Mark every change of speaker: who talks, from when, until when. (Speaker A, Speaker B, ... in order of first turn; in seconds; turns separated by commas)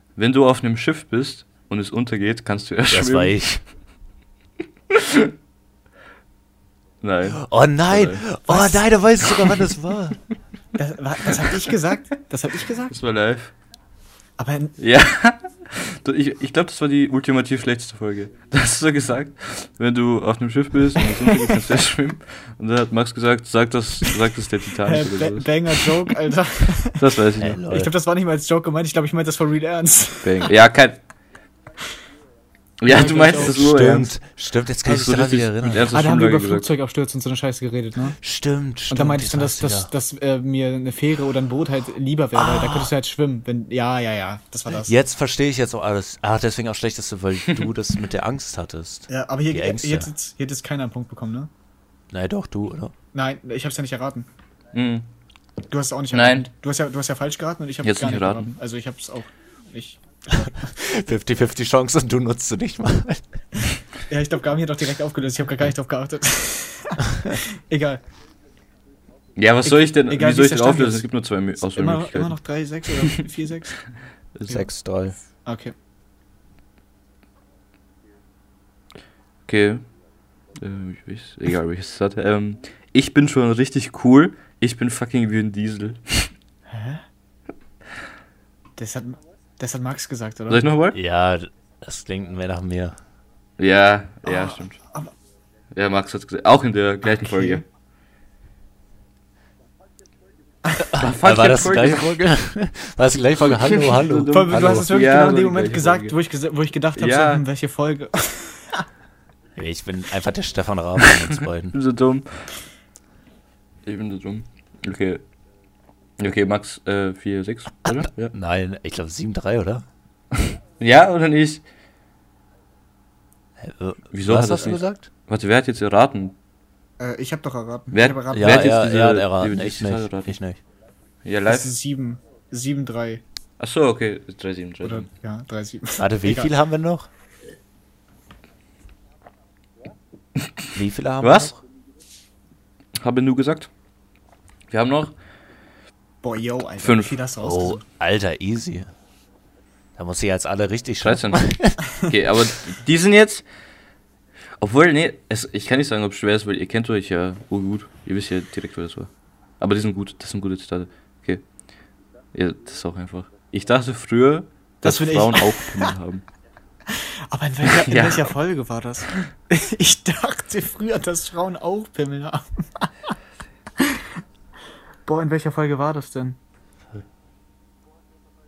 Speaker A: 0.2-3.4, Speaker B: 2.9-3.6, Speaker A: 4.9-5.3, Speaker A: 7.0-8.2, Speaker B: 7.3-10.2, Speaker C: 8.5-8.8, Speaker C: 10.8-13.0, Speaker A: 12.9-13.5, Speaker C: 14.4-14.8, Speaker A: 14.8-26.1, Speaker C: 24.9-27.1, Speaker A: 27.0-27.6, Speaker B: 27.4-27.9, Speaker C: 27.7-30.5, Speaker A: 30.2-31.0, Speaker A: 32.8-34.1, Speaker C: 32.9-33.7, Speaker B: 33.0-35.9, Speaker A: 34.9-36.7, Speaker C: 35.9-38.2, Speaker B: 38.2-39.9, Speaker C: 38.9-44.9, Speaker B: 42.3-42.9, Speaker B: 44.8-50.1, Speaker C: 49.1-51.5, Speaker B: 52.1-52.9, Speaker C: 53.1-54.3, Speaker A: 54.7-55.1, Speaker C: 55.7-60.6, Speaker A: 56.1-56.5, Speaker A: 57.8-58.5, Speaker B: 60.6-63.2, Speaker C: 64.1-68.0, Speaker A: 69.4-72.4, Speaker C: 69.7-71.1, Speaker C: 71.6-73.8, Speaker A: 74.4-74.6, Speaker B: 74.5-75.2, Speaker C: 75.5-75.7, Speaker A: 79.5-79.9, Speaker A: 80.6-86.3, Speaker C: 86.7-87.0, Speaker C: 88.8-90.7, Speaker A: 90.5-91.0, Speaker B: 90.9-93.0, Speaker A: 93.6-94.8, Speaker C: 94.2-95.1, Speaker A: 95.7-97.6, Speaker C: 97.0-97.6, Speaker B: 100.8-104.9, Speaker A: 101.0-102.1, Speaker A: 103.5-106.2, Speaker C: 104.3-108.8, Speaker A: 107.0-107.4, Speaker B: 109.6-111.8, Speaker A: 111.7-112.5, Speaker A: 113.9-115.2, Speaker A: 116.2-118.3, Speaker B: 117.9-119.8, Speaker A: 120.8-121.6, Speaker B: 123.6-125.1, Speaker A: 124.1-126.4, Speaker C: 127.0-128.8, Speaker A: 127.9-130.3, Speaker B: 128.3-130.6, Speaker A: 131.2-131.7, Speaker C: 131.5-133.2, Speaker A: 133.6-135.1, Speaker C: 134.8-136.5, Speaker B: 136.0-137.1, Speaker B: 140.8-141.6, Speaker A: 141.2-141.5, Speaker A: 143.0-143.7, Speaker A: 144.7-145.2, Speaker C: 146.2-147.8, Speaker A: 146.8-147.1, Speaker B: 147.4-148.9, Speaker B: 150.0-151.8, Speaker A: 151.0-153.4, Speaker A: 154.6-161.4, Speaker A: 162.3-166.2, Speaker C: 164.8-165.9, Speaker C: 166.9-173.1, Speaker A: 167.7-168.3, Speaker C: 173.8-174.1, Speaker C: 175.1-176.4